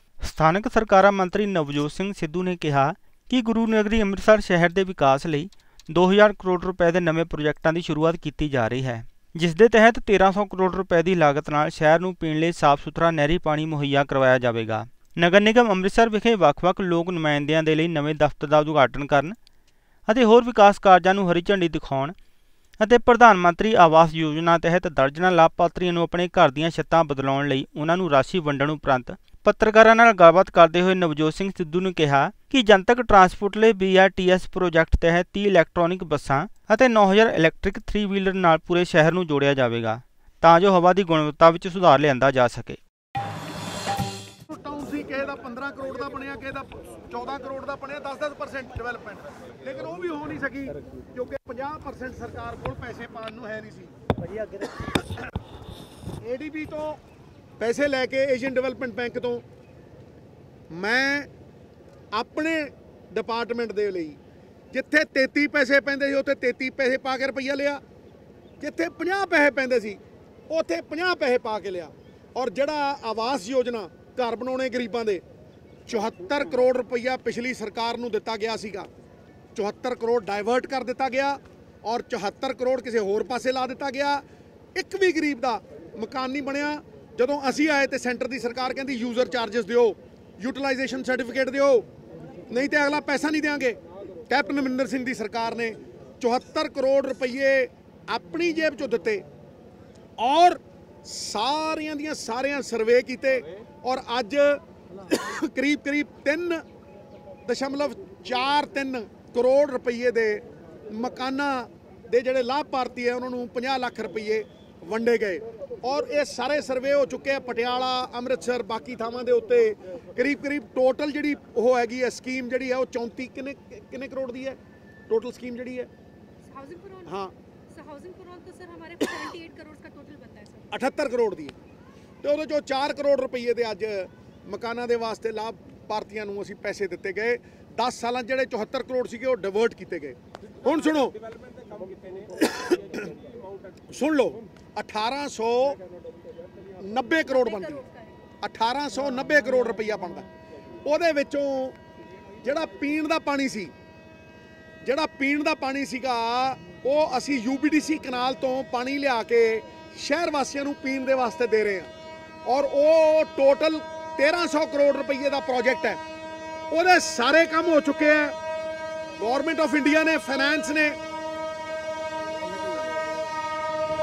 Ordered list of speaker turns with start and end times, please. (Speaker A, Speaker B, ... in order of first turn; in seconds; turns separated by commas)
Speaker A: 0.2-19.4, Speaker A: 20.1-22.1, Speaker A: 22.8-42.8, Speaker B: 44.5-55.0, Speaker B: 56.2-57.0, Speaker B: 57.6-59.4, Speaker B: 60.7-61.3, Speaker B: 62.1-64.2, Speaker B: 64.7-67.8, Speaker B: 68.6-75.2, Speaker B: 75.8-78.9, Speaker B: 79.5-84.2, Speaker B: 84.7-91.8, Speaker B: 92.5-93.8, Speaker B: 94.3-99.2, Speaker B: 100.2-106.6, Speaker B: 107.4-125.9, Speaker C: 126.5-127.1, Speaker B: 127.0-127.3, Speaker C: 127.7-130.7, Speaker B: 129.0-129.3, Speaker B: 130.7-131.5, Speaker B: 132.2-141.2, Speaker B: 142.3-143.2, Speaker B: 143.9-145.8, Speaker B: 146.8-147.8, Speaker C: 147.6-148.1, Speaker B: 148.4-150.3, Speaker B: 150.8-151.8, Speaker B: 152.4-153.7, Speaker B: 154.8-161.9, Speaker B: 162.4-166.0, Speaker B: 166.7-168.3, Speaker B: 169.2-171.0